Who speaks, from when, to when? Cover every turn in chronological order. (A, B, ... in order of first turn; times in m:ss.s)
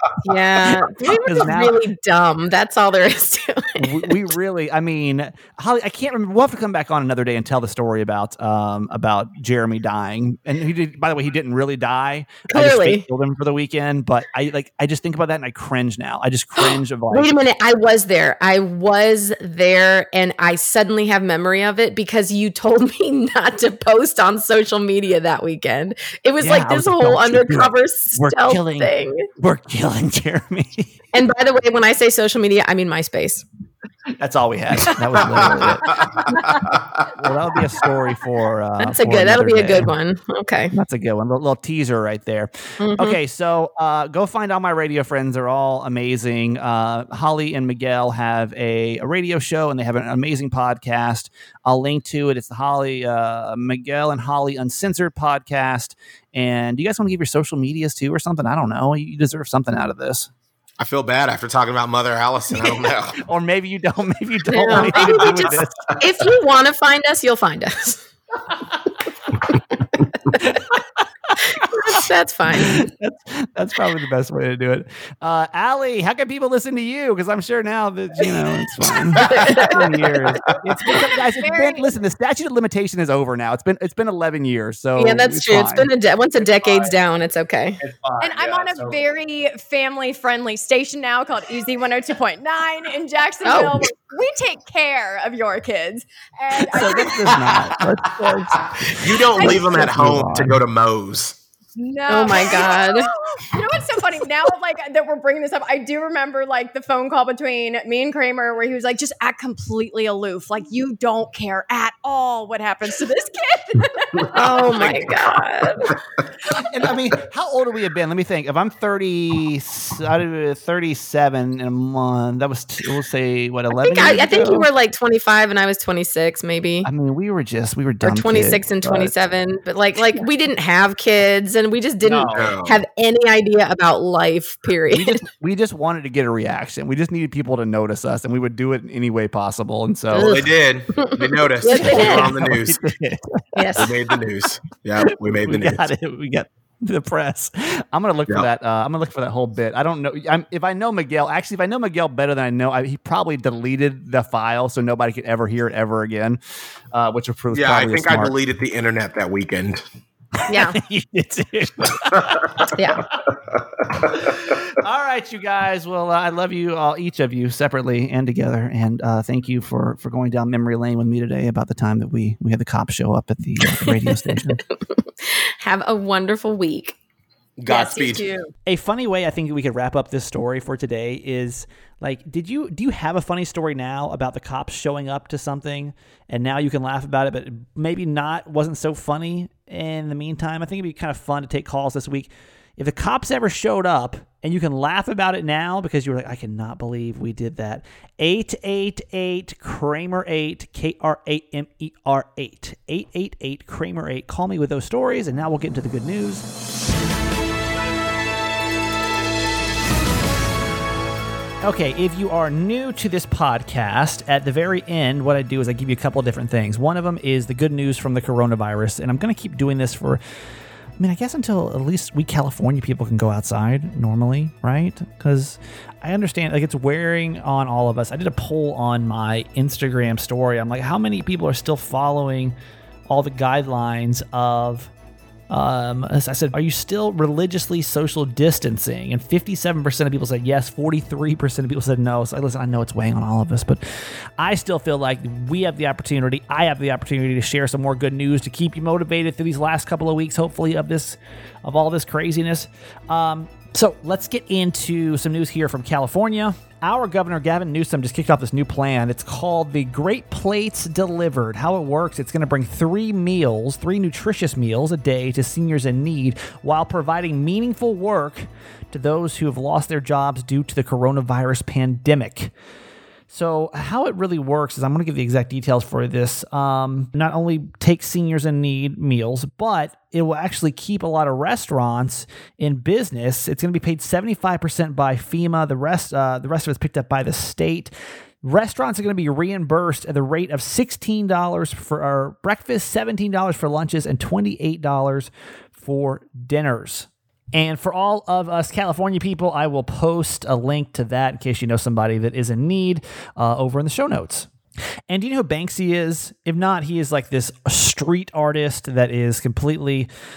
0:00.2-0:04.2 A
0:00.9-0:01.9 B
0:03.8-0:17.3 B
0:12.5-0:13.0 A
0:16.6-0:29.3 A
0:26.4-0:31.0 B
0:31.1-0:33.4 A
0:34.2-0:36.4 B
0:35.2-0:37.0 C
0:37.1-0:39.9 B
0:38.8-0:40.7 A
0:40.7-1:00.3 B
0:42.8-0:43.2 A
1:00.8-1:03.2 C
1:03.2-1:05.9 B
1:04.5-1:08.0 A
1:04.7-1:06.0 C
1:10.4-1:10.7 B
1:11.2-1:27.0 B
1:11.4-1:12.8 A
1:19.2-1:19.7 A
1:19.2-1:20.2 D
1:20.8-1:21.8 D
1:25.0-1:27.8 A
1:27.8-1:29.0 B
1:28.2-1:37.6 D
1:33.4-1:33.8 A
1:36.7-1:38.7 B
1:39.0-1:41.4 C
1:39.4-1:39.8 D
1:39.4-1:40.6 B
1:41.8-1:54.9 D
1:42.1-1:43.1 A
1:54.3-1:55.9 A
1:56.5-2:04.6 B
2:03.8-2:06.9 A
2:06.8-2:09.1 B
2:08.0-2:15.2 A
2:12.0-2:12.5 B
2:12.3-2:12.8 C
2:14.9-2:20.4 B
2:20.1-2:22.3 A
2:20.1-2:22.8 C
2:21.7-2:23.9 B
2:23.6-2:23.9 A
2:23.8-2:25.9 C
2:25.0-2:36.4 B
2:36.9-2:38.3 B
2:37.5-2:39.8 C
2:40.4-2:42.7 B
2:40.5-2:40.8 A
2:42.0-2:42.7 C
2:42.7-2:43.0 A
2:43.5-2:44.2 C
2:43.9-2:54.6 B
2:53.9-2:54.3 A
2:55.2-2:57.0 A
2:57.6-2:58.3 C
2:57.7-2:58.5 A
2:58.6-3:26.4 B
3:31.6-3:40.2 B
3:41.0-3:52.5 B
3:53.1-3:54.9 B
3:55.5-4:32.5 B
4:33.3-4:47.9 B
4:48.4-5:04.5 B
5:05.1-5:10.1 B